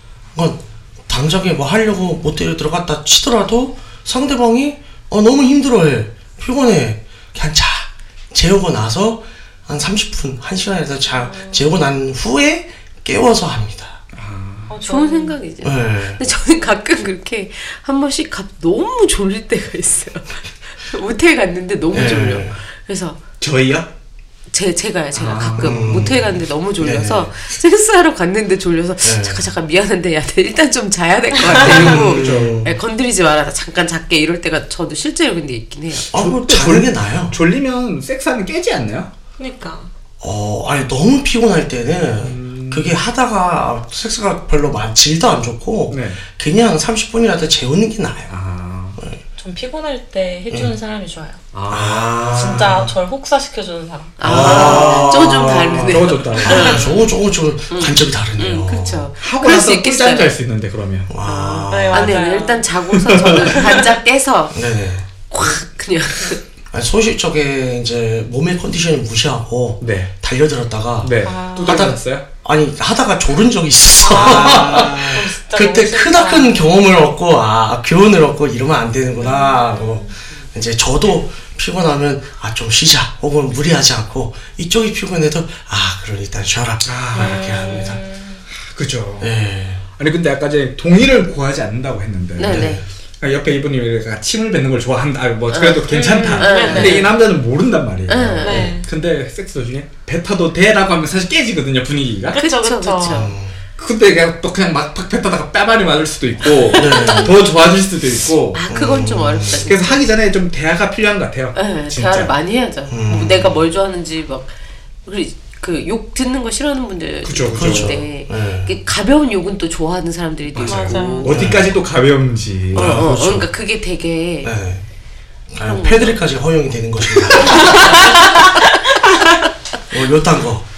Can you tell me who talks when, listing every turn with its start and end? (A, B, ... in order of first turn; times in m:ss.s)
0:00.3-0:14.0 A
0:14.1-0:14.7 B
0:14.7-0:15.4 C
0:14.8-0:23.2 D
0:15.6-0:16.2 A
0:21.9-0:22.6 A
0:23.4-0:23.9 B
0:24.5-0:36.1 D
0:25.1-0:26.0 B
0:25.6-0:27.3 A
0:29.0-0:29.5 A
0:31.5-0:32.7 B
0:31.6-0:32.7 A
0:36.1-0:37.4 A
0:36.1-0:39.1 B
0:39.4-0:39.9 C
0:40.2-0:48.3 A
0:42.2-0:43.0 B
0:45.9-0:46.2 B
0:48.3-0:49.0 B
0:49.4-0:51.4 C
0:51.5-0:52.8 B
0:51.7-0:52.9 A
0:52.3-0:54.2 C
0:54.2-0:57.1 D
0:54.2-0:56.8 B
0:54.2-0:59.1 A
0:57.7-1:00.3 D
0:59.2-1:01.1 B
1:01.1-1:02.2 A
1:01.2-1:04.7 D
1:01.7-1:02.7 C
1:02.9-1:03.6 B
1:03.5-1:03.8 C
1:04.5-1:05.1 A
1:05.3-1:06.4 D
1:06.7-1:28.0 A
1:09.8-1:10.1 B
1:11.0-1:12.2 B
1:11.2-1:11.9 C
1:14.0-1:16.6 C
1:14.1-1:15.2 B
1:19.2-1:20.2 C
1:26.8-1:28.0 B
1:27.2-1:28.4 C
1:28.5-1:29.3 B
1:29.2-1:29.8 A
1:30.0-1:42.4 B
1:32.4-1:32.8 D
1:32.4-1:32.8 A
1:35.5-1:37.2 D
1:35.9-1:37.1 C
1:38.1-1:38.7 D
1:38.4-1:38.9 C
1:42.3-1:43.3 C
1:42.4-1:43.3 D
1:43.1-1:43.5 A
1:43.8-1:48.6 B
1:46.6-1:47.3 D
1:46.7-1:47.3 A
1:48.5-1:50.1 D
1:48.7-1:49.7 A
1:49.5-1:52.3 B
1:51.5-1:54.5 D
1:52.9-1:53.6 A
1:55.0-2:01.5 D
1:57.2-1:58.0 B
1:57.5-1:58.7 A
2:00.5-2:03.3 B
2:00.6-2:01.3 C
2:01.2-2:01.8 A
2:02.7-2:03.5 A
2:02.7-2:04.5 D
2:04.4-2:04.8 A
2:05.5-2:08.1 A
2:05.6-2:06.2 D
2:07.2-2:09.5 D
2:09.9-2:10.6 A